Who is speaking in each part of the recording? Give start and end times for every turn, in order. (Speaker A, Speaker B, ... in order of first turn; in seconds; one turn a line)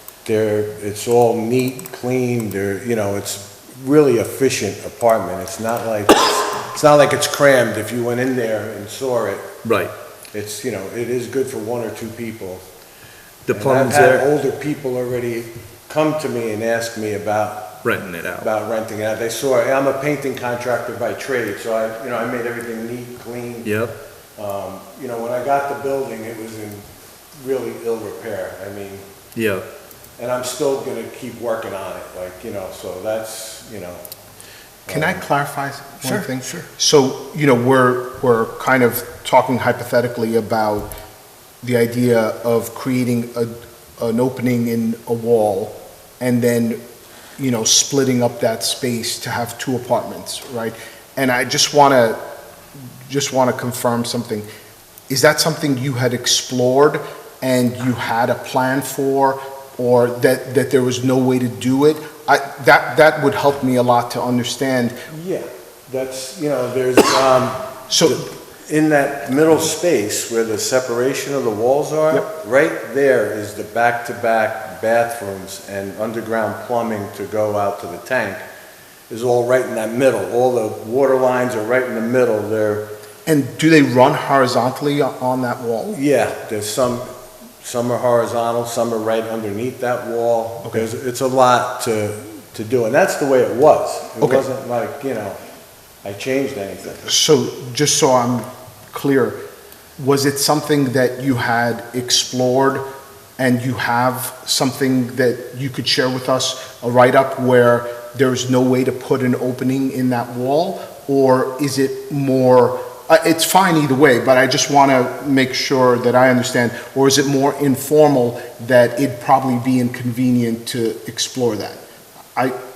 Speaker A: 0.2-9.5
Speaker B: 9.6-9.9
Speaker A: 10.3-12.6
Speaker B: 13.4-14.2
Speaker A: 13.5-23.7
Speaker B: 17.8-18.5
Speaker B: 23.6-23.9
Speaker A: 24.4-29.1
Speaker B: 29.3-29.6
Speaker A: 30.2-34.1
Speaker A: 34.8-35.2
Speaker C: 34.9-40.9
Speaker B: 36.0-36.6
Speaker C: 41.6-46.8
Speaker C: 47.4-52.2
Speaker C: 53.0-54.5
Speaker C: 55.1-64.9
Speaker A: 65.1-78.4
Speaker C: 67.9-68.2
Speaker A: 79.1-82.9
Speaker C: 83.2-86.0
Speaker A: 85.9-87.1
Speaker A: 87.6-95.4
Speaker C: 94.2-94.4
Speaker A: 96.0-97.1
Speaker C: 97.0-99.4
Speaker C: 100.0-102.8
Speaker C: 103.4-122.5